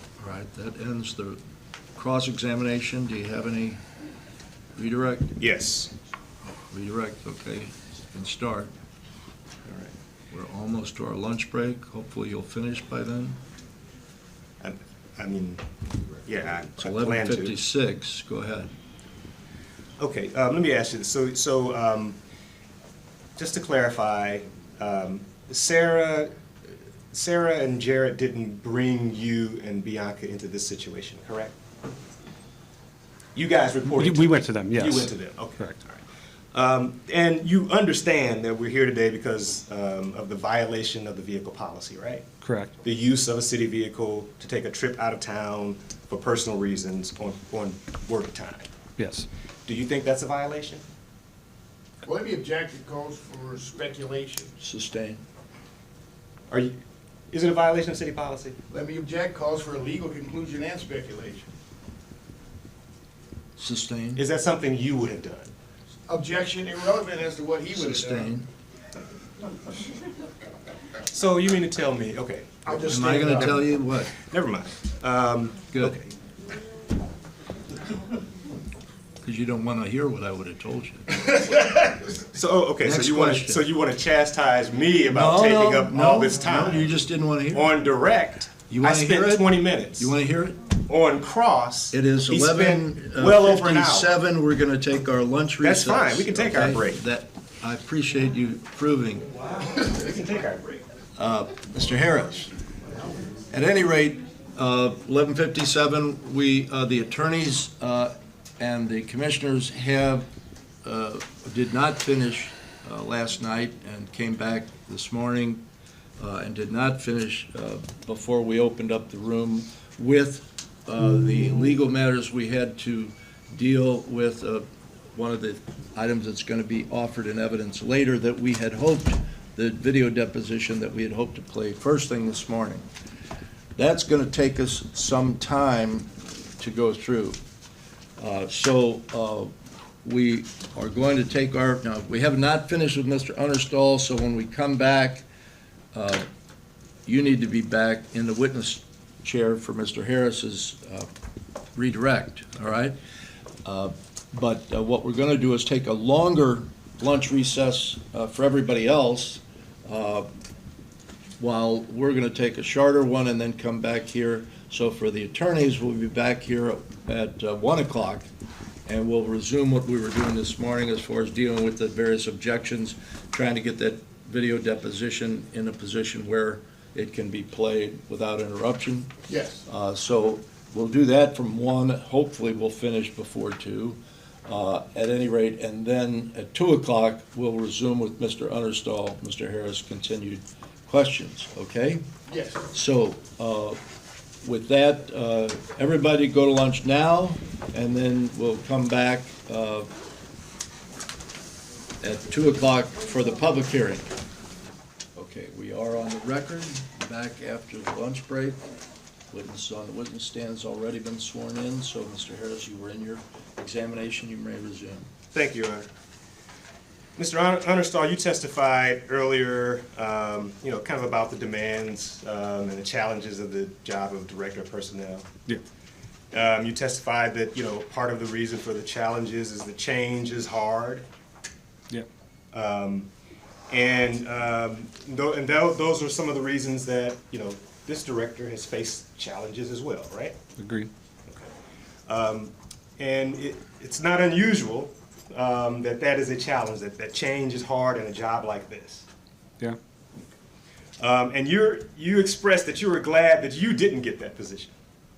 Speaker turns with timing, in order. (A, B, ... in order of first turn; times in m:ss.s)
0:00.2-0:01.4 A
0:02.0-0:03.8 A
0:04.8-0:05.3 A
0:05.4-0:05.9 B
0:06.7-0:08.7 A
0:09.6-0:09.9 B
0:10.3-0:13.4 A
0:14.6-0:15.7 B
0:16.2-0:17.6 B
0:16.8-0:18.7 A
0:20.0-0:22.2 B
0:23.4-0:26.3 B
0:27.1-0:31.6 B
0:33.3-0:42.2 B
0:33.9-0:35.8 C
0:42.4-0:42.7 C
0:42.8-0:48.7 B
0:49.0-0:49.3 C
0:49.6-0:50.8 B
0:52.0-0:54.5 D
0:54.6-0:55.2 A
0:57.3-0:58.6 B
0:58.7-1:01.5 D
1:03.6-1:04.2 A
1:04.2-1:05.5 B
1:06.1-1:08.3 D
1:07.7-1:08.5 A
1:11.1-1:16.1 B
1:12.6-1:13.6 D
1:12.8-1:14.2 A
1:19.2-1:21.3 A
1:22.0-1:26.9 B
1:22.8-1:23.6 A
1:25.1-1:27.7 A
1:27.5-1:30.1 B
1:28.7-1:30.6 A
1:30.9-1:34.1 B
1:31.9-1:39.3 A
1:35.6-1:37.0 B
1:39.7-1:40.8 B
1:41.2-1:42.5 A
1:43.5-1:50.2 A
1:50.8-1:55.6 A
1:56.2-2:12.8 A
2:13.8-2:17.4 A
2:18.2-2:19.5 A
2:20.0-2:25.2 A
2:25.9-2:26.2 A
2:27.0-2:31.1 A
2:31.7-2:33.0 A
2:33.6-2:40.3 A
2:41.4-2:48.3 A
2:48.8-2:59.1 A
2:59.3-2:59.6 D
2:59.6-3:12.0 A
3:12.3-3:12.6 D
3:12.7-3:13.8 A
3:14.4-3:19.9 A
3:22.0-3:24.1 A
3:25.1-3:28.6 A
3:29.3-3:35.1 A
3:35.3-3:35.9 B
3:37.2-3:45.2 B
3:46.3-3:51.0 B
3:52.5-3:53.1 B
3:53.7-4:00.4 B
4:00.6-4:00.9 C
4:02.1-4:09.1 B
4:11.0-4:14.7 B